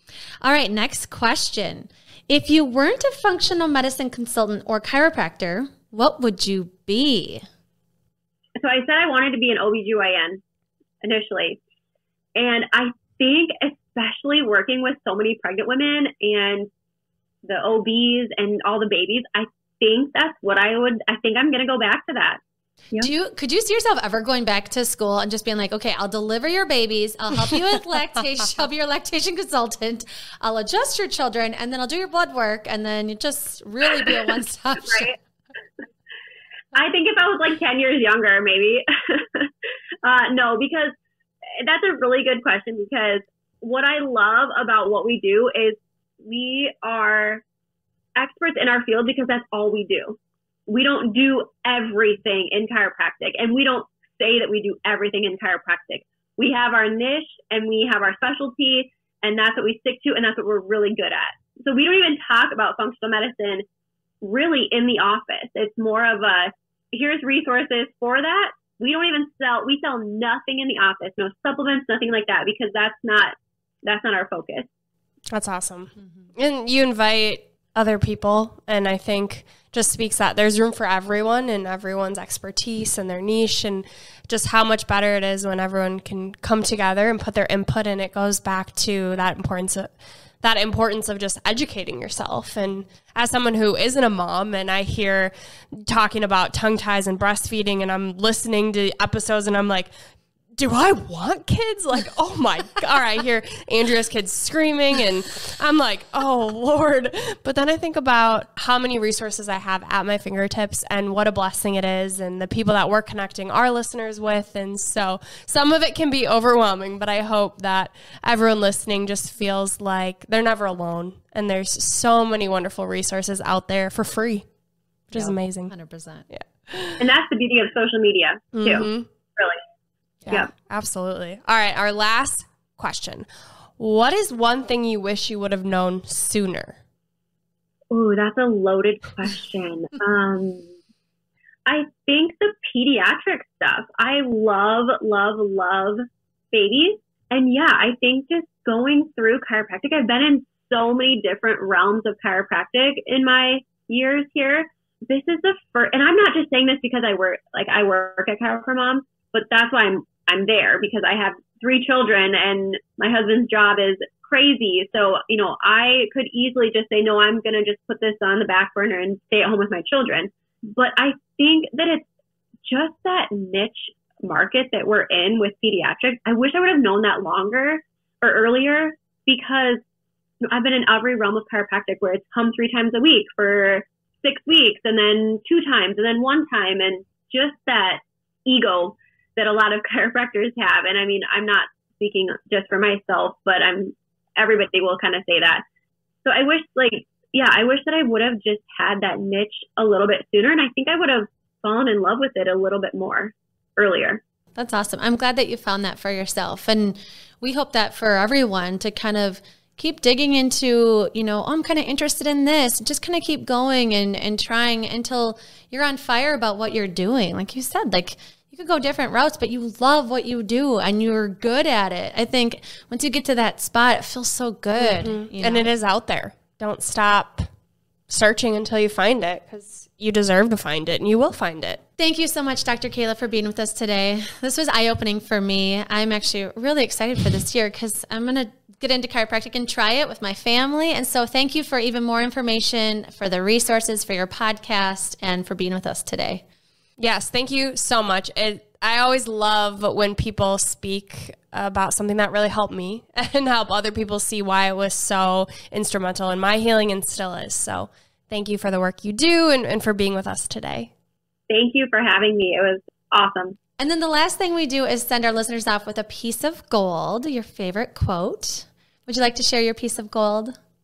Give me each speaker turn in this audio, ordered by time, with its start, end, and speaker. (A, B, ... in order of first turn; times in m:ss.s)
0:00.4-0:07.4 A
0:08.6-0:10.4 B
0:11.0-0:11.6 B
0:12.4-0:16.7 B
0:17.4-0:22.4 B
0:23.0-0:35.1 A
0:34.9-0:35.1 B
0:36.7-0:39.5 B
0:40.0-0:41.0 B
0:41.6-0:47.4 B
0:48.2-1:03.6 B
1:04.2-1:14.7 B
1:15.3-1:39.9 C
1:40.6-2:04.4 C
2:05.1-2:05.7 C
2:05.1-2:06.3 A
2:06.3-2:07.0 C
2:07.0-2:09.6 B
2:08.5-2:09.1 C
2:10.3-2:16.8 C
2:17.9-2:20.7 B
2:21.7-2:52.1 B
2:52.7-2:59.8 B
3:00.4-3:15.6 B
3:16.2-3:24.2 B
3:24.6-3:45.7 A
3:44.8-3:47.5 C
3:48.1-3:51.8 C
3:52.0-4:06.4 A
4:07.0-4:20.9 C
4:21.5-4:23.6 B
4:23.8-4:30.6 A